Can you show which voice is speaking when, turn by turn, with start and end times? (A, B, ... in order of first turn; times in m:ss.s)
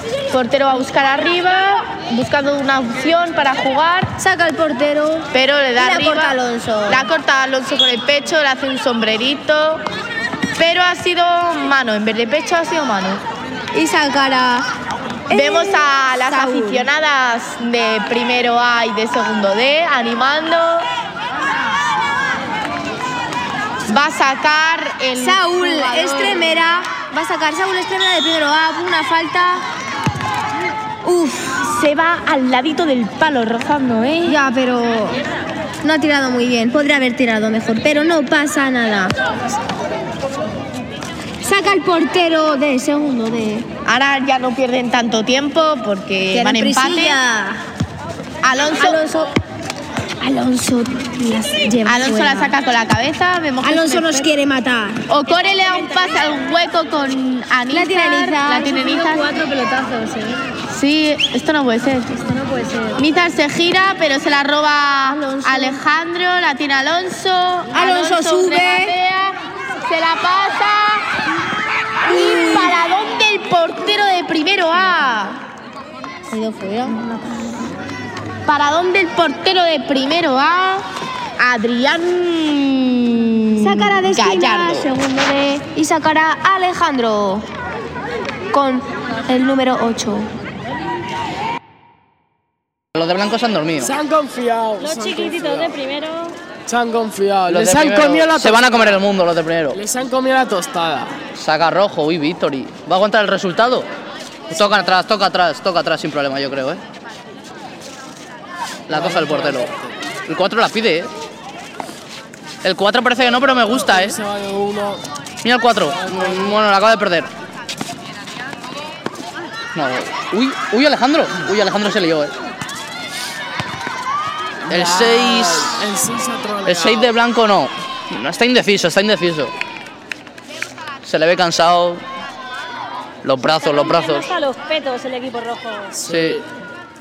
0:00.3-0:04.1 A
0:04.2-0:07.1 B
0:05.3-0:06.4 A
0:06.9-0:09.8 A
0:10.6-0:13.2 A
0:13.7-0:14.7 B
0:15.3-0:16.9 B
0:15.3-0:20.9 A
0:23.8-0:26.6 A
0:25.2-0:29.6 B
0:31.0-0:31.4 B
0:31.2-0:34.4 A
0:34.2-0:35.2 B
0:35.8-0:39.1 B
0:41.4-0:43.7 B
0:43.8-0:47.2 A
0:46.3-0:47.6 B
0:48.4-0:49.0 A
0:48.8-0:49.3 B
0:50.2-0:52.5 B
0:51.8-0:54.3 A
0:53.6-0:55.1 B
0:55.1-0:59.3 A
0:57.7-1:00.4 B
1:00.7-1:02.2 A
1:02.2-1:03.0 B
1:03.0-1:11.0 A
1:05.0-1:05.8 B
1:07.7-1:08.9 B
1:12.0-1:15.4 A
1:12.0-1:12.8 B
1:16.3-1:17.7 B
1:18.4-1:20.9 A
1:21.4-1:24.9 A
1:23.6-1:27.4 B
1:28.5-1:30.3 B
1:32.9-1:33.9 C
1:33.8-1:35.7 D
1:34.8-1:36.4 E
1:36.7-1:39.0 D
1:37.5-1:39.8 C
1:39.7-1:41.2 D
1:41.4-1:43.9 C
1:44.5-1:46.8 C
1:48.9-1:49.7 C
1:48.9-1:49.9 D
1:50.3-1:51.1 C
1:52.6-1:54.2 C
1:53.7-1:55.0 D
1:55.4-1:57.3 C
1:55.9-1:56.6 D
1:59.7-2:02.3 C
2:04.6-2:07.1 D
2:04.7-2:05.8 C
2:06.6-2:09.5 C
2:11.0-2:12.0 C
2:13.2-2:14.3 C
2:13.5-2:15.9 E
2:15.9-2:16.4 D
2:16.0-2:16.4 C